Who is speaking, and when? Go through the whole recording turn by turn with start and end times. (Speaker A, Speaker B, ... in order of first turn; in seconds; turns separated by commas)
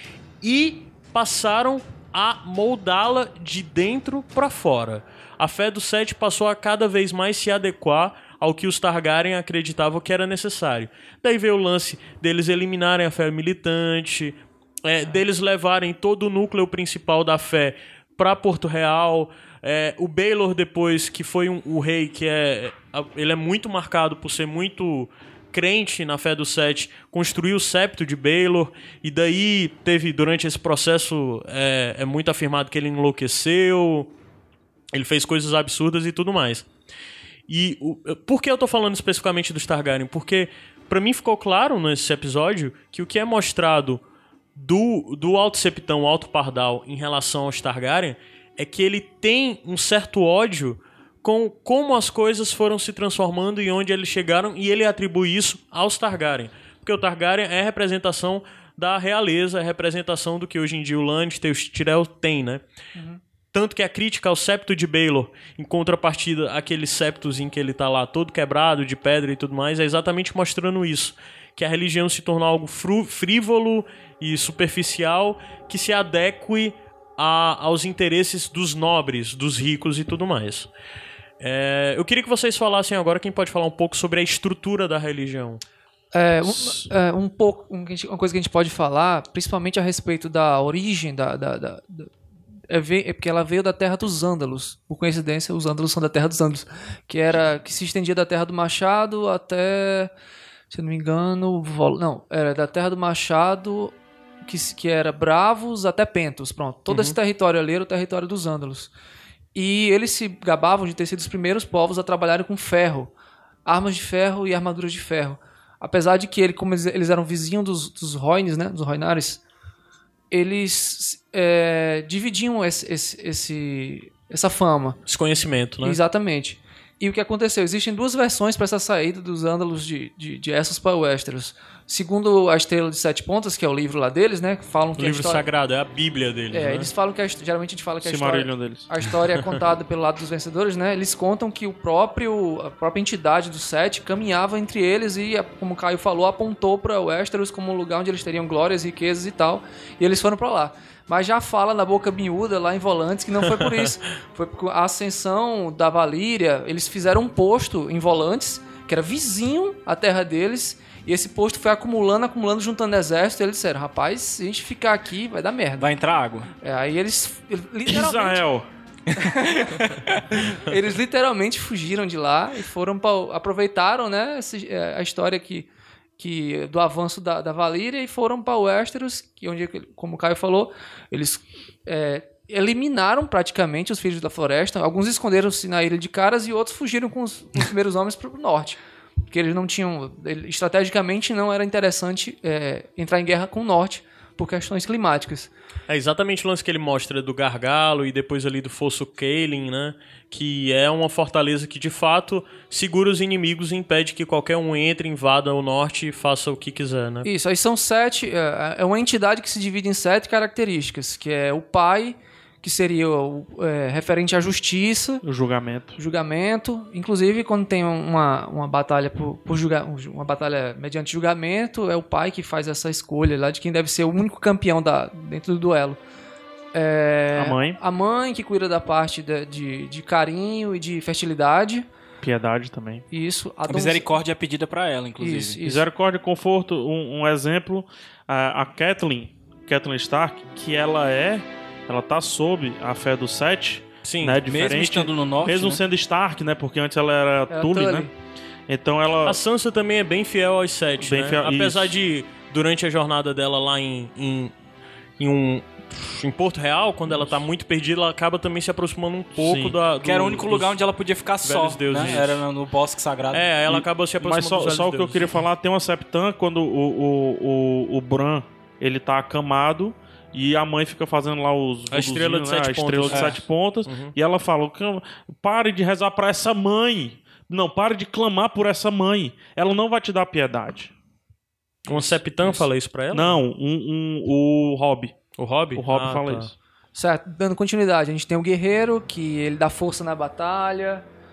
Speaker A: 0.4-34.1, Speaker A: 34.9-36.7, Speaker A: 37.5-44.0, Speaker A: 44.5-62.6, Speaker A: 63.5-80.7, Speaker A: 81.4-85.6, Speaker B: 86.1-92.1, Speaker C: 86.4-86.9, Speaker B: 92.7-100.1, Speaker B: 100.7-108.9, Speaker A: 106.9-107.2, Speaker B: 109.5-113.1, Speaker B: 113.7-119.4, Speaker B: 120.3-125.0, Speaker A: 125.0-126.0, Speaker B: 125.8-135.4, Speaker A: 135.0-136.9, Speaker B: 136.5-165.9, Speaker C: 138.0-138.9, Speaker D: 165.8-166.5, Speaker B: 166.6-168.4, Speaker C: 167.8-168.7, Speaker D: 169.1-170.2, Speaker B: 170.3-188.8, Speaker B: 189.3-195.5, Speaker A: 195.9-207.3, Speaker B: 207.2-215.2, Speaker C: 215.2-216.0, Speaker B: 216.0-226.0, Speaker B: 226.7-231.8, Speaker C: 227.3-227.8, Speaker C: 232.2-233.0, Speaker B: 233.1-234.1, Speaker D: 233.7-235.6, Speaker B: 235.2-235.8, Speaker C: 235.6-248.1, Speaker A: 244.0-244.4, Speaker D: 244.5-245.8, Speaker B: 247.5-248.1, Speaker C: 248.7-249.4, Speaker A: 249.2-254.5, Speaker C: 251.0-252.0, Speaker A: 255.2-260.8, Speaker C: 259.4-259.8, Speaker D: 260.0-263.4, Speaker A: 261.4-262.4, Speaker A: 263.3-265.3, Speaker C: 263.7-280.9, Speaker A: 271.9-274.1, Speaker D: 273.1-273.4, Speaker A: 281.9-283.4, Speaker C: 282.0-285.1, Speaker A: 285.4-286.5, Speaker C: 285.7-286.5, Speaker B: 286.9-291.0